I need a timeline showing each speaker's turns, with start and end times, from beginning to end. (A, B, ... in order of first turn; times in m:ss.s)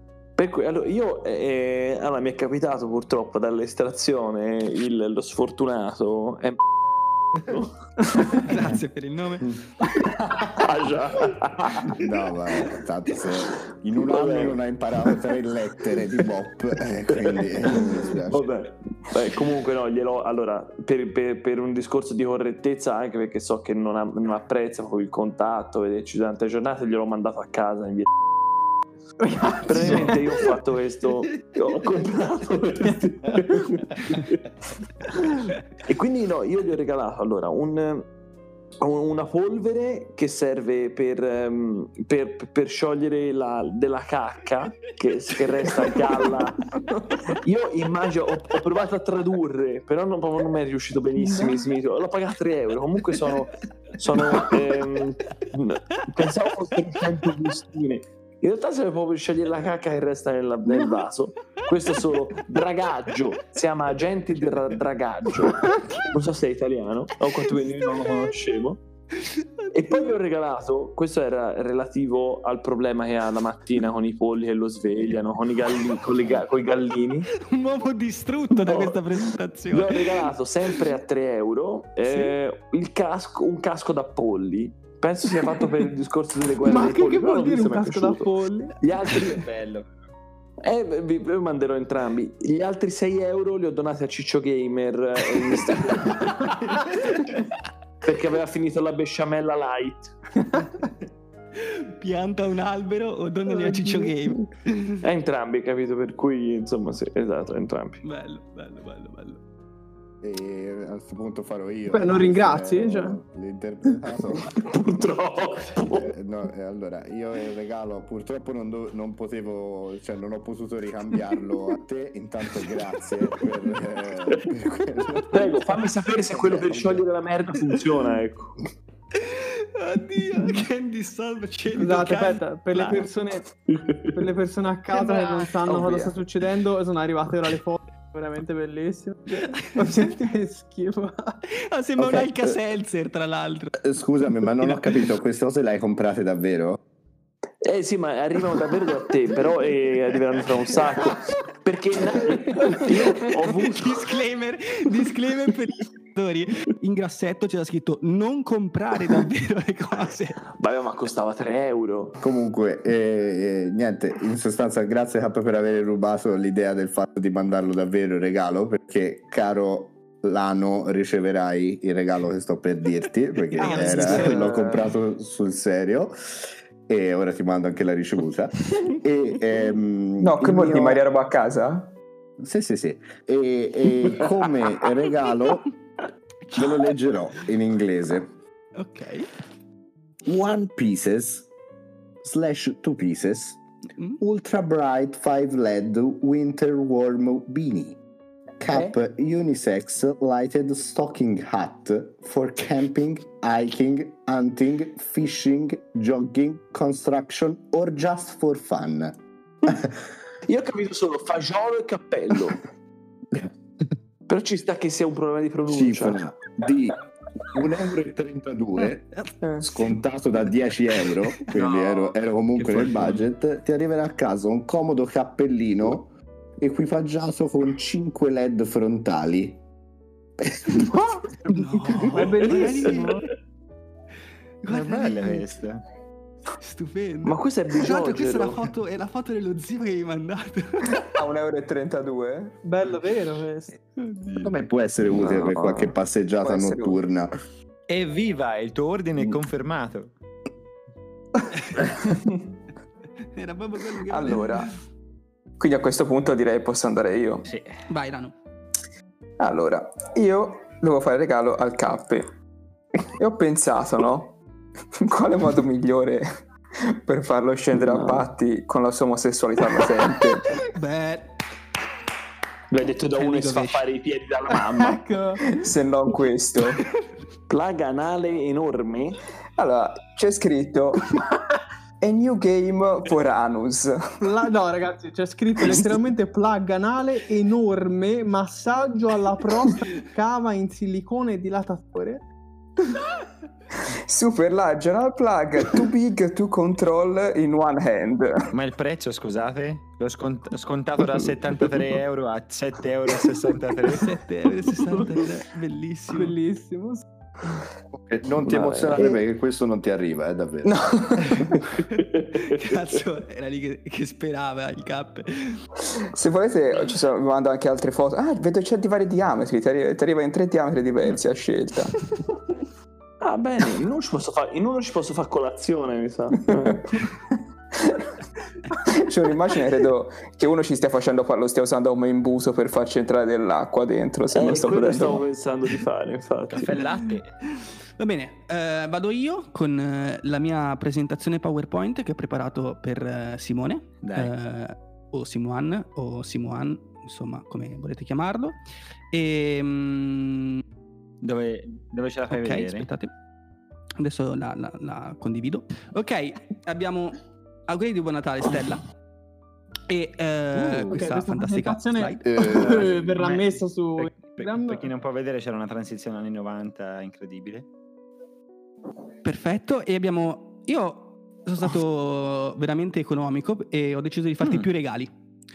0:00.4-0:06.6 A
0:07.4-0:08.4 A
0:08.4-0:09.5 B
0:10.0-0:12.0 A
0:11.9-0:18.5 C
0:14.0-0:14.6 A
0:17.1-0:28.1 A
0:29.2-0:30.2 D
0:29.4-0:34.4 A
0:35.8-0:38.1 A
0:38.8-1:08.8 A
0:51.2-0:51.6 D
1:00.7-1:01.0 D
1:09.2-1:10.1 B
1:09.7-1:17.3 A
1:17.3-1:20.2 B
1:18.5-1:19.0 A
1:19.7-1:29.5 A
1:26.6-1:28.8 D
1:29.3-1:29.9 E
1:30.6-1:36.7 A
1:38.0-1:40.6 A
1:41.6-1:44.9 B
1:43.5-1:44.1 D
1:45.0-1:48.0 A
1:48.0-1:49.4 B
1:50.2-1:54.6 C
1:51.9-1:53.2 D
1:54.5-1:56.1 A
1:55.9-2:07.0 C
2:05.2-2:08.6 A
2:09.1-2:13.0 B
2:11.7-2:13.5 D
2:13.7-2:14.2 A
2:14.1-2:21.4 D
2:15.6-2:16.1 A
2:19.5-2:20.0 B
2:21.5-2:23.8 B
2:22.0-2:22.6 C
2:23.8-2:26.8 C
2:24.6-2:24.9 B
2:27.6-2:34.1 A
2:33.5-2:40.4 B
2:40.5-2:42.2 A
2:42.2-2:56.1 C
2:53.6-2:54.3 B
2:53.6-2:54.6 A
2:53.8-2:54.8 F
2:56.9-3:01.0 C
3:00.2-3:01.9 F
3:02.4-3:05.6 C
3:06.5-3:08.3 C
3:08.8-3:09.3 B
3:10.2-3:11.5 C
3:12.2-3:13.6 C
3:14.2-3:18.0 C
3:18.6-3:29.9 C
3:30.4-3:32.6 A
3:34.3-3:36.2 A
3:35.7-3:49.6 C
3:39.2-3:40.0 B
3:41.5-3:42.2 A
3:42.6-3:43.0 E
3:50.4-3:51.2 C
3:51.4-3:53.2 B
3:51.9-3:53.2 D
3:54.6-3:55.4 B
3:54.7-3:55.8 E
3:56.6-4:01.1 B
3:57.2-3:58.7 A
4:01.1-4:02.6 F
4:02.6-4:03.7 D
4:03.9-4:04.5 B
4:04.4-4:07.3 C
4:05.1-4:05.9 A
4:06.4-4:07.0 F
4:07.9-4:10.1 E
4:11.5-4:11.8 B
4:12.0-4:12.4 F
4:13.3-4:14.8 B
4:14.1-4:14.7 F
4:15.6-4:17.5 F
4:17.9-4:18.3 B
4:19.4-4:22.3 F
4:23.2-4:24.4 F
4:25.0-4:26.2 F
4:26.8-4:30.5 F
4:27.9-4:28.2 A
4:30.5-4:31.3 B
4:32.7-4:35.0 A
4:33.1-4:33.8 B
4:34.8-4:35.4 D
4:35.4-4:36.8 F
4:37.5-4:39.2 A
4:39.6-4:41.2 F
4:42.0-4:44.0 F
4:44.2-4:52.2 D
4:53.8-4:58.5 F
4:58.5-5:04.1 E
5:03.9-5:06.3 B
5:06.1-5:07.0 D
5:07.9-5:11.5 C
5:08.5-5:09.0 A
5:10.6-5:11.6 F
5:11.8-5:15.6 B
5:16.1-5:22.0 F
5:23.2-5:27.0 A
5:26.5-5:26.8 F
5:28.7-5:35.2 F
5:34.3-5:36.8 A
5:36.6-5:37.3 E
5:36.6-5:36.9 B
5:37.5-5:48.6 B
5:44.0-5:44.3 E
5:49.1-5:50.6 B
5:51.2-5:52.9 E
5:52.3-5:53.1 B
5:54.0-5:58.8 B
5:59.9-6:02.3 B
6:00.8-6:04.9 D
6:02.4-6:03.4 E
6:04.0-6:07.6 E
6:09.2-6:15.1 B